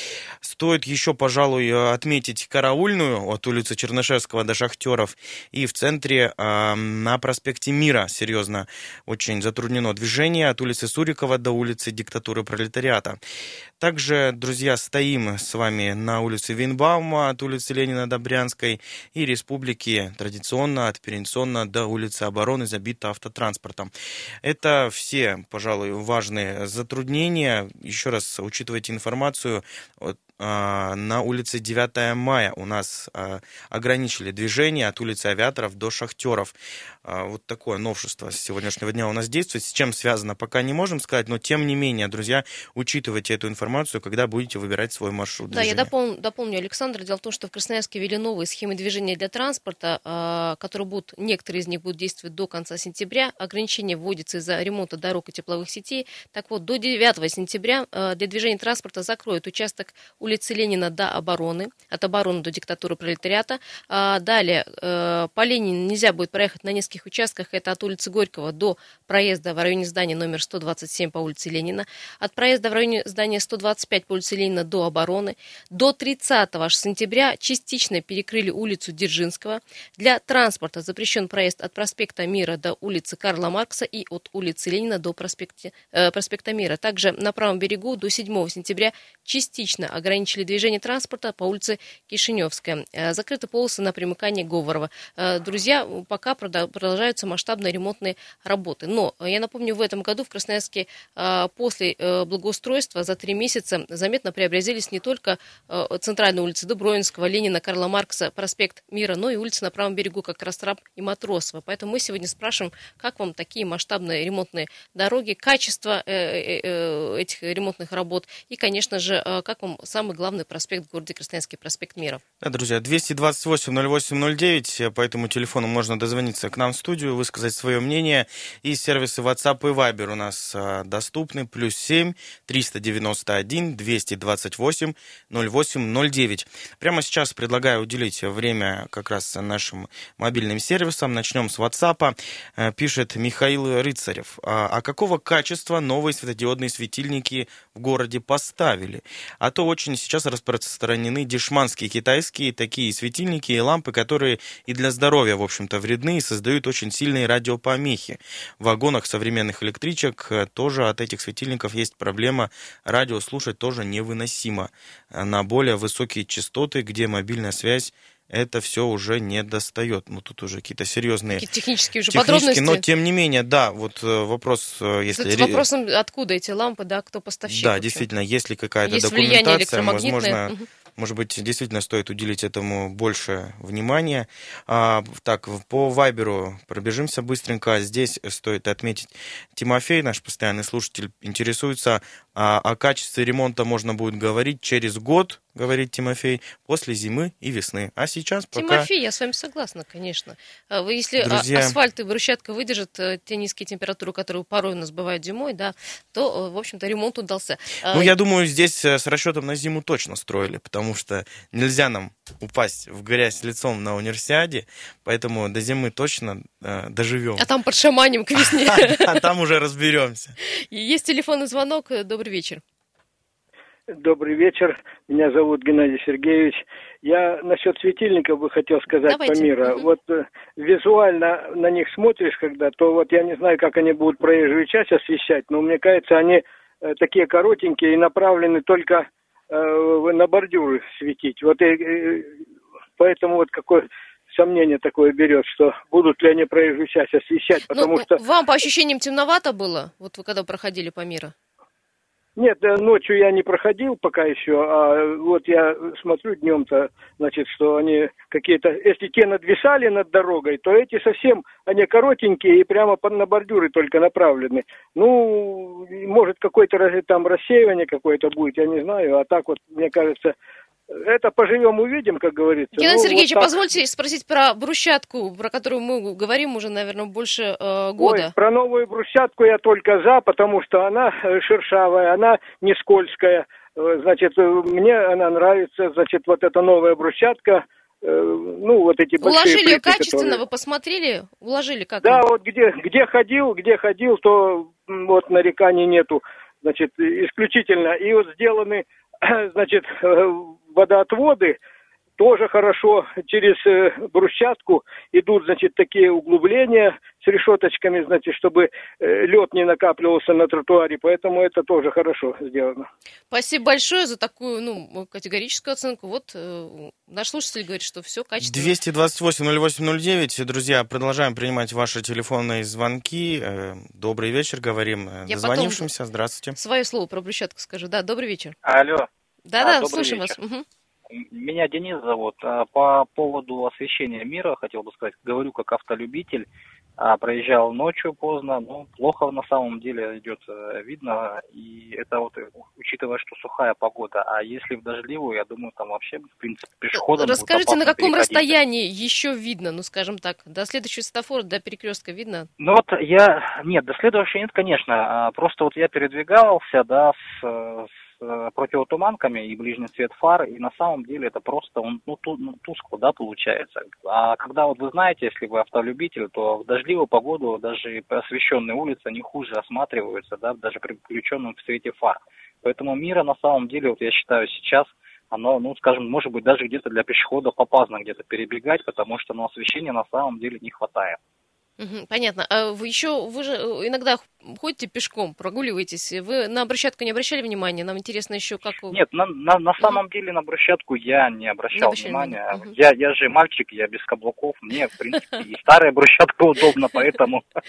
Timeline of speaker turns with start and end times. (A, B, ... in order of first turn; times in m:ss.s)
0:00.4-0:13.2 A
0:13.8-0:23.9 A
0:24.4-0:45.9 A
0:45.5-2:02.2 B
2:02.4-2:51.4 A
2:51.4-2:52.8 B
2:52.1-2:55.6 A
2:55.1-2:58.0 B
2:57.5-3:18.9 A
2:58.8-3:00.6 B
3:18.5-3:28.1 B
3:21.2-3:21.8 A
3:27.9-3:37.4 A
3:37.4-3:39.2 B
3:38.4-3:40.3 A
3:40.7-3:42.6 B
3:44.0-4:02.3 C
3:49.1-3:49.9 B
4:03.0-4:08.2 C
4:07.7-4:11.3 B
4:12.4-4:30.3 C
4:30.9-4:33.5 C
4:32.8-4:38.3 B
4:38.0-4:50.4 C
4:49.2-4:52.2 B
4:52.0-5:01.6 C
5:02.2-5:12.8 C
5:13.3-5:18.7 B
5:18.4-5:26.6 A
5:25.3-5:25.8 B
5:26.6-5:28.6 B
5:28.6-5:29.1 D
5:29.5-5:30.6 B
5:29.6-5:30.4 D
5:31.1-5:48.6 D
5:46.9-5:52.5 B
5:52.6-6:21.2 D
6:21.8-6:29.0 B
6:28.9-6:37.4 D
6:31.7-6:32.7 B